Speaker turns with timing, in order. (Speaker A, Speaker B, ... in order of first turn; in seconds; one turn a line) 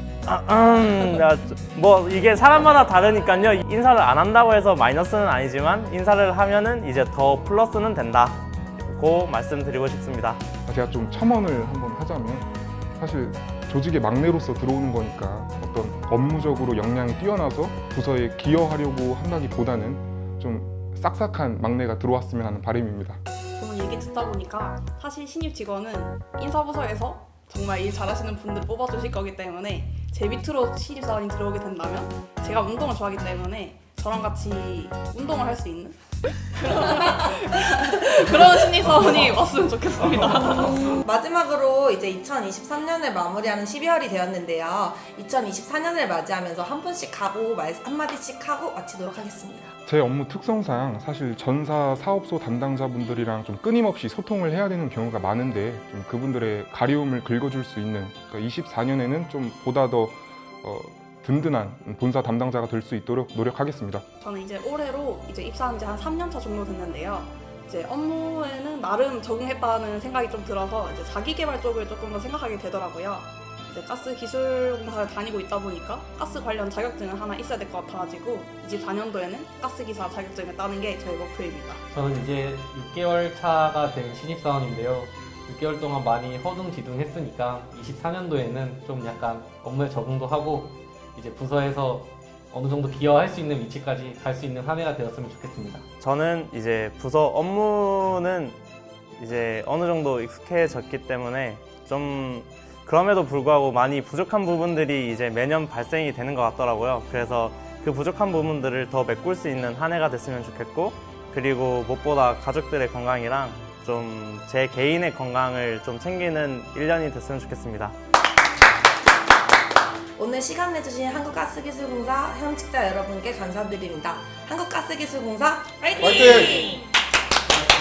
Speaker A: 0.2-10.4
Speaker B: 10.7-12.5
Speaker B: 13.0-23.2
Speaker C: 23.6-40.8
Speaker D: 40.5-49.7
Speaker B: 49.9-64.0
Speaker C: 64.2-81.8
Speaker E: 81.9-95.8
Speaker A: 96.0-98.6
Speaker A: 99.2-118.0
Speaker D: 120.2-126.9